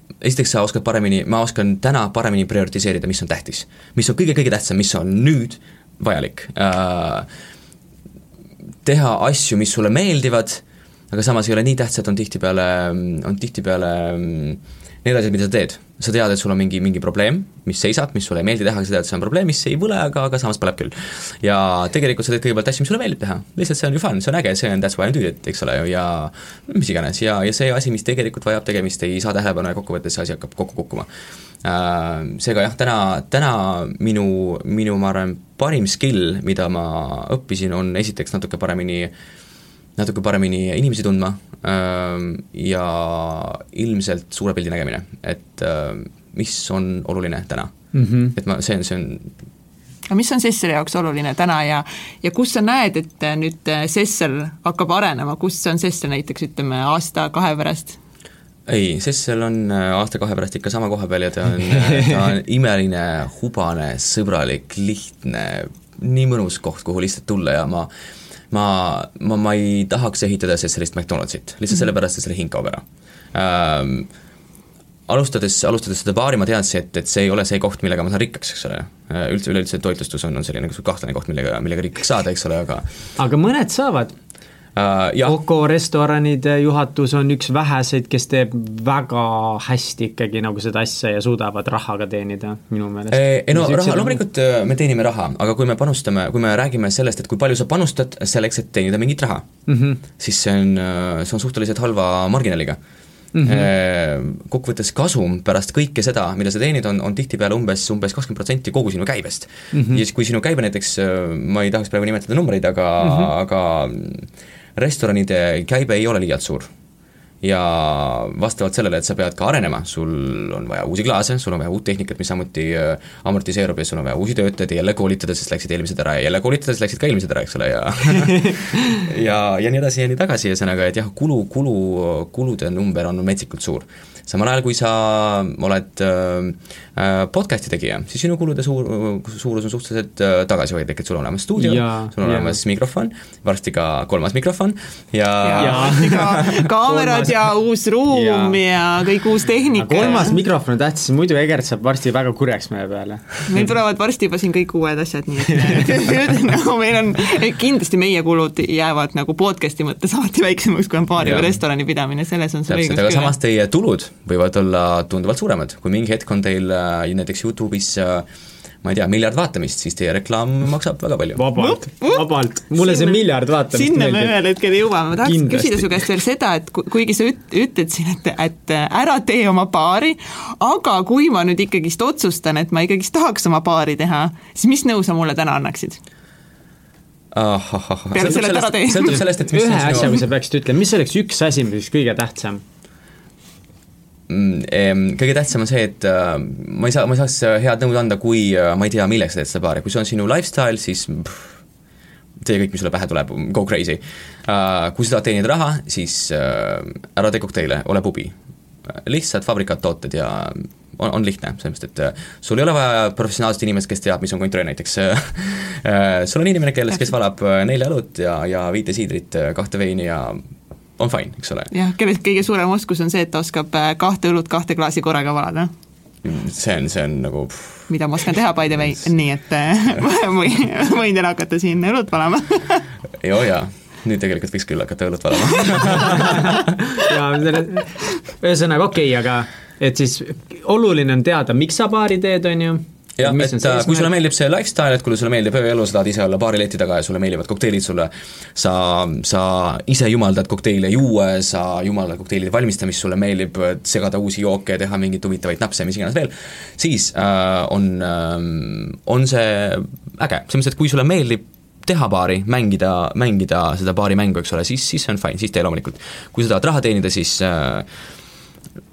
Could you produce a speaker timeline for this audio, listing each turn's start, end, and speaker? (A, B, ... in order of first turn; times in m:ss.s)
0:00.2-0:07.3 A
0:08.8-0:31.1 A
0:31.6-0:39.1 A
0:40.0-0:47.7 A
0:47.9-0:48.3 B
0:48.3-0:49.3 A
0:50.1-0:58.0 C
0:58.7-1:07.9 A
1:08.5-1:12.8 A
1:13.3-1:14.1 A
1:15.1-1:22.8 A
1:23.2-1:24.1 B
1:24.8-1:25.4 A
1:25.2-1:34.2 B
1:33.1-1:39.5 A
1:39.7-1:40.0 B
1:40.2-1:42.8 A
1:43.3-1:43.7 B
1:43.4-1:56.7 A
1:49.7-1:50.0 B
1:53.0-1:53.3 B
1:57.4-2:26.5 A
2:21.6-2:22.6 B
2:25.4-2:30.4 C
2:25.6-2:27.4 B
2:28.1-2:28.6 B
2:29.8-2:33.7 B
2:33.5-2:43.3 C
2:41.2-2:41.5 A
2:42.7-2:48.2 A
2:48.8-2:51.4 A
2:51.4-2:54.4 B
2:51.6-3:06.0 C
2:55.2-2:56.0 B
3:07.3-3:10.2 A
3:08.1-3:09.2 C
3:09.1-3:12.6 B
3:14.3-3:21.5 A
3:22.4-3:28.3 A
3:28.8-3:40.4 A
3:41.0-3:41.7 A
3:41.7-3:45.7 C
3:46.2-3:47.9 A
3:47.9-3:52.9 C
3:53.2-3:56.7 A
3:56.1-4:04.1 B
4:03.2-4:27.9 A